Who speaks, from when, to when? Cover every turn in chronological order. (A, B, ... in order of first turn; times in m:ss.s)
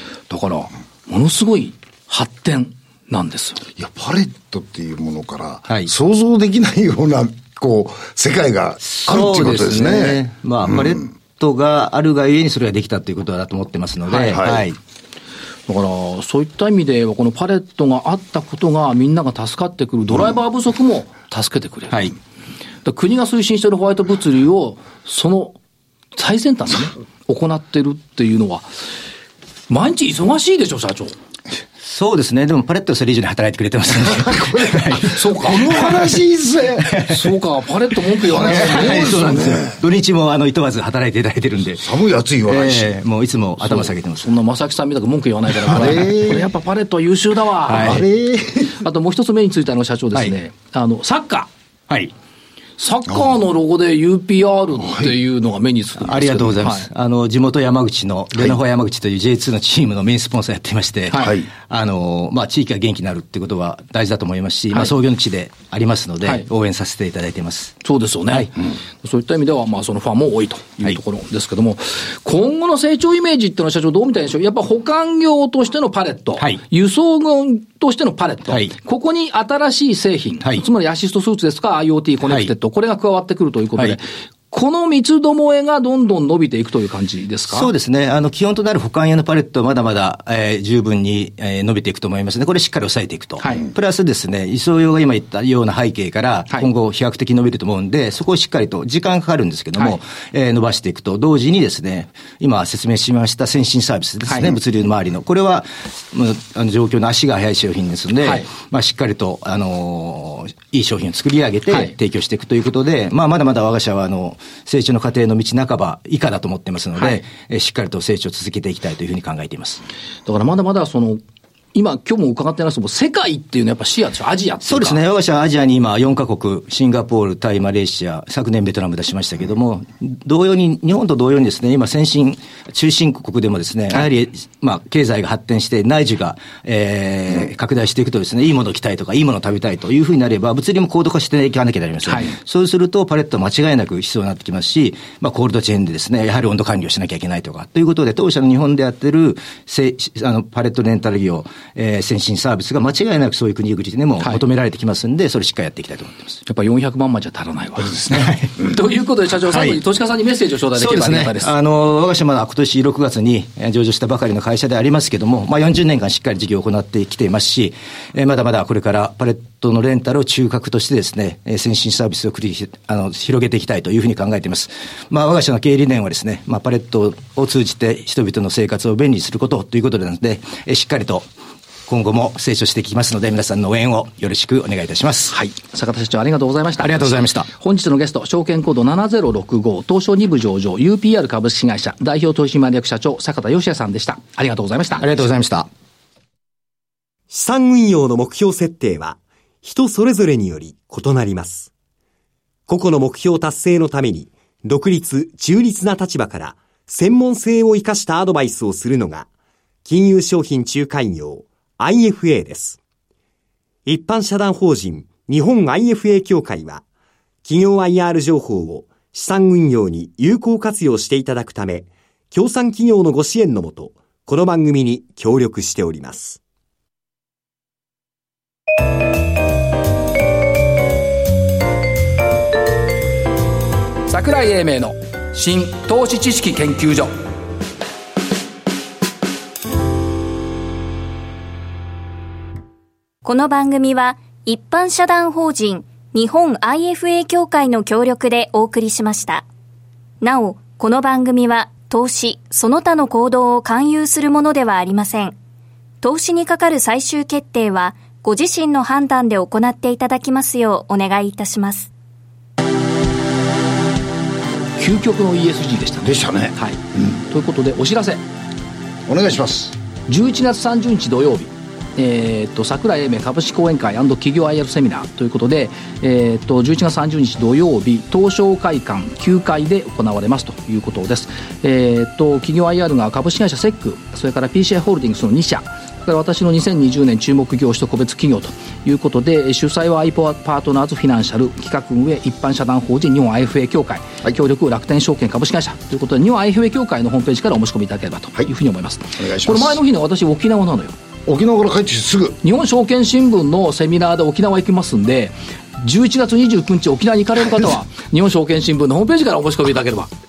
0:00.3-0:03.6 A
0:03.8-0:10.2 B
0:08.8-0:14.8 C
0:14.1-0:14.4 A
0:14.3-0:14.6 B
0:15.7-0:22.1 A
0:22.8-0:25.6 A
0:26.1-0:28.7 A
0:29.7-0:31.1 A
0:31.8-0:36.2 C
0:34.3-0:36.9 B
0:35.0-0:35.9 A
0:36.8-0:37.2 C
0:37.0-0:39.2 A
0:38.3-0:39.8 B
0:38.4-0:41.9 C
0:41.8-0:42.9 B
0:42.4-0:44.3 C
0:43.6-0:48.0 A
0:45.7-0:46.4 B
0:47.7-0:48.0 C
0:47.8-0:48.8 B
0:48.7-0:51.5 A
0:52.8-0:56.9 A
0:56.0-1:08.5 C
1:01.1-1:01.4 A
1:07.8-1:27.7 A
1:27.5-1:59.8 C
1:33.4-1:33.7 A
1:44.3-1:44.5 A
1:48.2-1:48.5 A
2:00.2-2:01.2 A
2:01.7-2:05.0 A
2:04.6-2:36.4 C
2:22.0-2:22.3 A
2:36.4-2:41.5 A
2:38.1-2:38.6 C
2:39.5-2:39.8 C
2:40.8-3:01.3 C
3:01.9-3:05.3 C
3:05.3-3:15.1 A
3:06.8-3:07.5 C
3:15.0-3:15.7 C
3:17.3-3:21.7 D
3:22.7-3:29.3 D
3:29.8-3:32.8 D
3:33.8-3:36.8 D
3:37.4-3:46.4 D
3:54.1-3:57.1 A
4:03.2-4:09.4 E
4:10.2-4:15.3 E
4:16.0-4:21.9 E
4:24.8-4:28.2 A
4:26.0-4:26.5 B
4:29.1-4:29.8 B
4:30.1-5:01.0 A
4:59.2-4:59.8 B
5:01.2-5:02.4 B
5:02.4-5:10.1 A